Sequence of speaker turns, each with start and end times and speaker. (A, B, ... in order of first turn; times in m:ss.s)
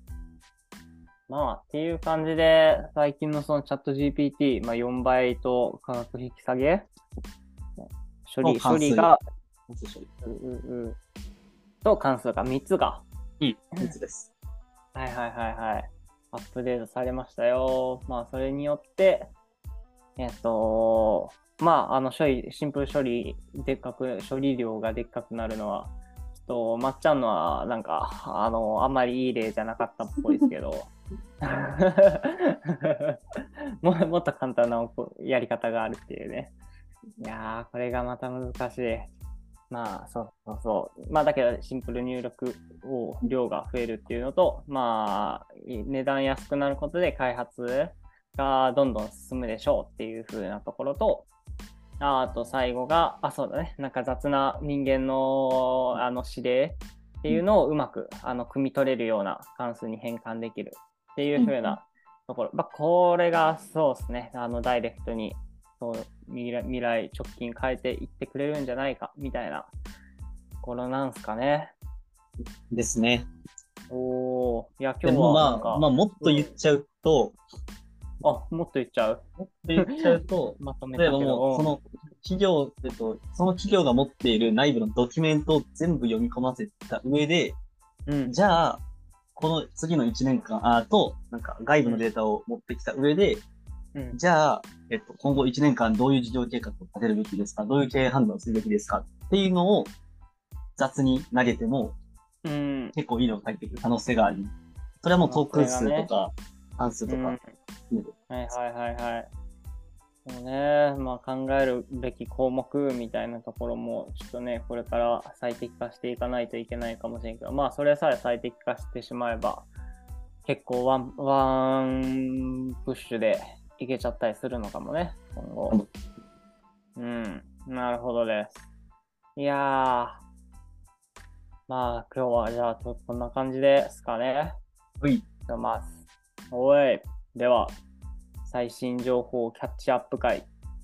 0:01.3-0:06.9 A
0:07.8-0:09.2 A
0:08.4-0:09.1 B
0:09.7-0:10.1 B
0:10.2-0:11.0 A
0:11.8-0:13.0 A
0:13.4-0:14.3 B
0:14.9-0:19.3 A
0:20.2-0:33.2 A
0:33.8-0:36.5 A
0:37.2-0:39.1 A
0:39.7-0:51.3 A
0:52.0-1:09.7 A
1:01.4-1:01.8 B
1:10.6-1:11.7 A
1:12.4-1:13.3 B
1:13.9-1:16.5 A
1:15.0-1:17.4 B
1:18.2-1:19.2 A
1:19.4-1:27.6 B
1:19.8-1:21.7 A
1:28.1-1:28.3 A
1:28.3-1:28.8 B
1:29.4-1:33.4 B
1:34.1-1:39.9 B
1:40.8-1:42.0 B
1:42.4-1:43.0 A
1:43.0-1:47.4 B
1:45.3-1:46.1 A
1:47.1-1:47.4 A
1:48.3-1:49.3 A
1:50.3-1:59.7 A
2:00.4-2:05.8 A
2:07.0-2:08.6 A
2:09.4-2:10.2 A
2:11.7-2:14.6 A
2:15.5-2:16.0 A
2:16.5-2:17.8 A
2:18.5-2:20.5 A